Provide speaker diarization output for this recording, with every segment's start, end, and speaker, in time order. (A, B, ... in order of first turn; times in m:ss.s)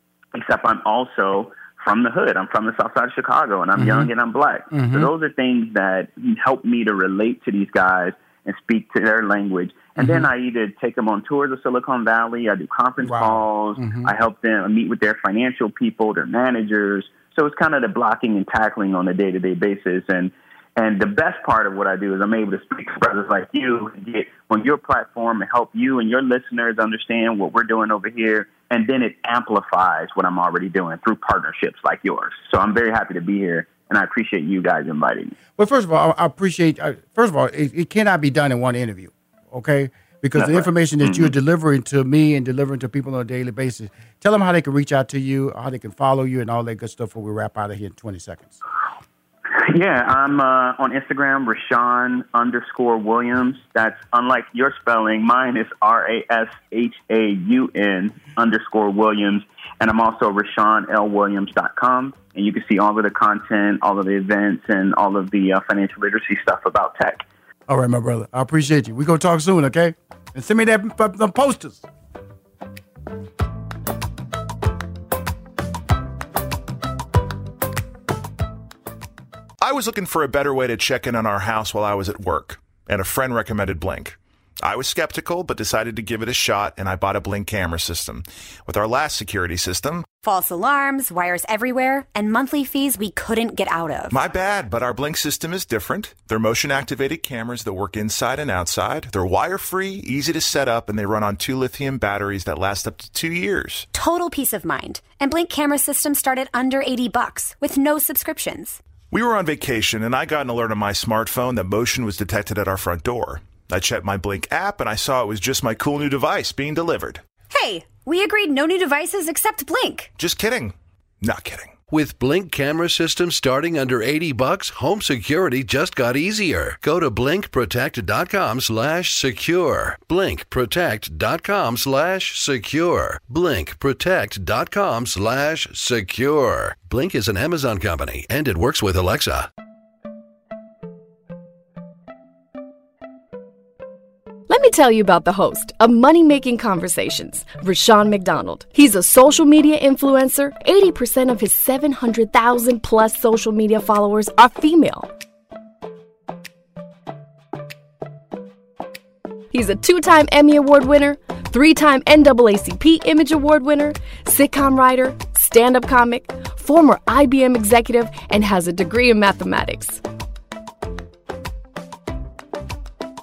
0:00.3-0:35.4 A
0:03.8-0:04.1 B
0:04.7-0:05.1 B
0:10.0-0:10.3 B
0:13.0-0:14.1 B
0:35.6-0:48.6 B
0:40.3-0:41.4 A
0:49.6-1:07.2 A
1:07.7-1:11.8 B
1:19.6-1:30.0 C
1:30.2-1:34.2 D
1:34.1-1:43.9 C
1:43.9-1:48.8 D
1:49.1-1:57.2 C
1:57.5-2:00.1 D
2:00.2-2:01.7 C
2:01.9-2:19.5 E
2:24.5-2:35.1 F
2:39.5-2:50.0 F